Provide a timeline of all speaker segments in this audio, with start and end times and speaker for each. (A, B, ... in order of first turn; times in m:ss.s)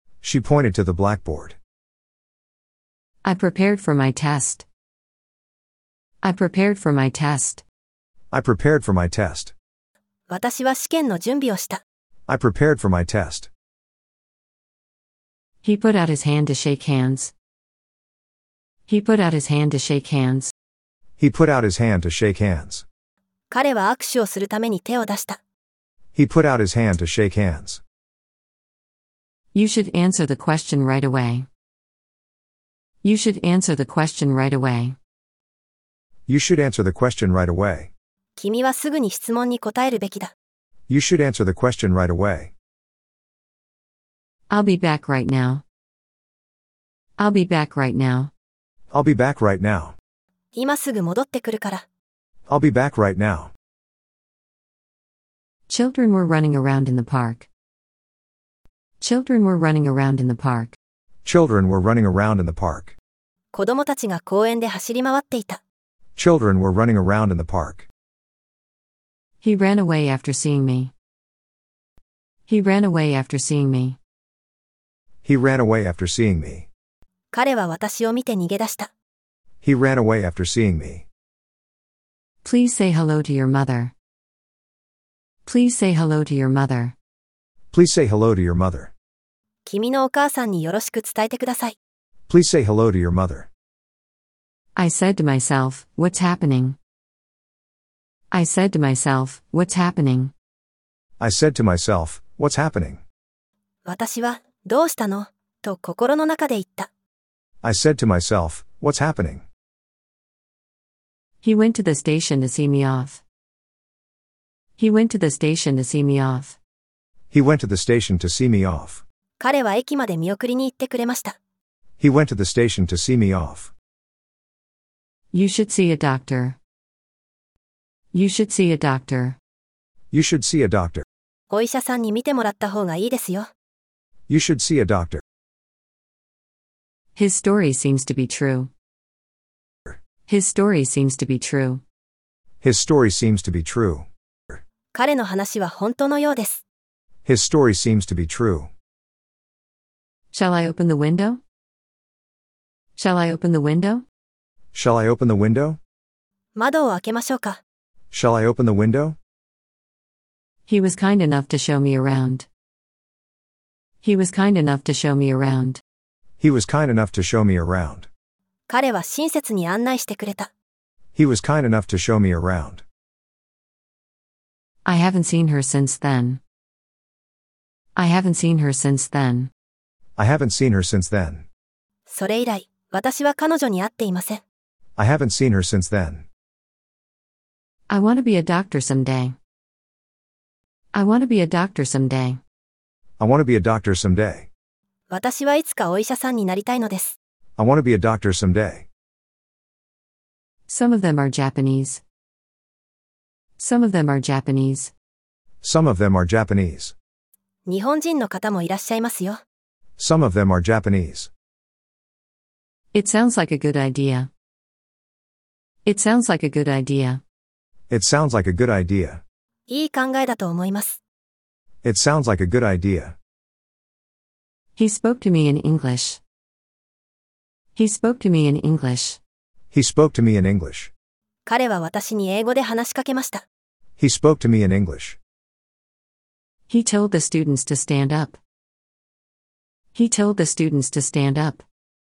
0:00.2-0:01.6 A
0:03.2-0:04.6 B
0:06.2-0:07.6 B
0:08.3-0:09.5 A
0:10.3-0:11.8 C
0:12.3-0:13.5 A
0:15.6-0:17.3 B
0:18.9-0:20.5 B
0:21.2-0:22.8 A
0:23.5-0:25.4 C
0:26.1-0:27.8 A
0:29.5-0:31.5 B
0:33.0-0:35.0 B
0:36.3-0:37.9 A
0:38.4-0:40.3 C
0:40.9-0:42.5 A
0:44.5-0:45.6 B
0:47.2-0:48.3 B
0:48.9-0:50.0 A
0:50.5-0:51.8 C
0:52.5-0:53.5 A
0:55.7-0:57.5 B
0:59.0-1:00.8 B
1:01.2-1:02.9 A
1:03.5-1:05.6 C
1:06.2-1:07.9 A
1:09.4-1:10.9 B
1:12.5-1:14.0 B
1:15.2-1:16.7 A
1:17.3-1:18.9 C
1:19.6-1:21.0 A
1:22.4-1:23.9 B
1:25.4-1:26.9 B
1:27.7-1:28.9 A
1:29.6-1:31.7 C
1:32.3-1:33.5 A
1:34.8-1:36.8 B
1:38.3-1:40.3 B
1:41.2-1:43.0 A
1:43.8-1:46.9 C
1:47.6-1:49.4 A
1:51.4-1:53.2 B
1:54.8-1:56.6 B
1:57.3-1:59.0 A
1:59.4-2:01.4 C
2:02.0-2:03.7 A
2:05.3-2:06.6 B
2:08.1-2:09.4 B
2:10.1-2:11.0 A
2:11.5-2:13.5 C
2:14.3-2:15.2 A
2:17.1-2:18.7 B
2:20.3-2:21.8 B
2:22.6-2:24.1 A
2:24.9-2:26.6 C
2:27.2-2:28.7 A
2:30.3-2:31.4 B
2:33.0-2:34.0 B
2:34.7-2:35.8 A
2:36.6-2:37.6 C
2:38.1-2:39.2 A
2:40.7-2:42.5 B
2:44.0-2:45.8 B
2:46.4-2:48.1 A
2:48.7-2:50.5 C
2:51.1-2:52.8 A
2:54.8-2:56.4 B
2:58.0-2:59.5 B
3:00.2-3:01.4 A
3:02.1-3:04.4 C
3:05.0-3:06.2 A
3:07.9-3:09.4 B
3:10.9-3:12.4 B
3:13.2-3:14.5 A
3:15.1-3:17.1 C
3:17.6-3:18.8 A
3:20.7-3:22.0 B
3:23.6-3:24.9 B
3:25.6-3:26.9 A
3:27.6-3:29.4 C
3:30.0-3:31.3 A
3:32.9-3:34.3 B
3:35.8-3:37.2 B
3:37.9-3:39.2 A
3:39.7-3:41.0 C
3:41.8-3:43.1 A
3:44.8-3:46.2 B
3:47.8-3:49.2 B
3:49.7-3:50.9 A
3:51.4-3:53.4 C
3:54.0-3:55.2 A
3:56.7-3:58.4 B
3:59.9-4:01.6 B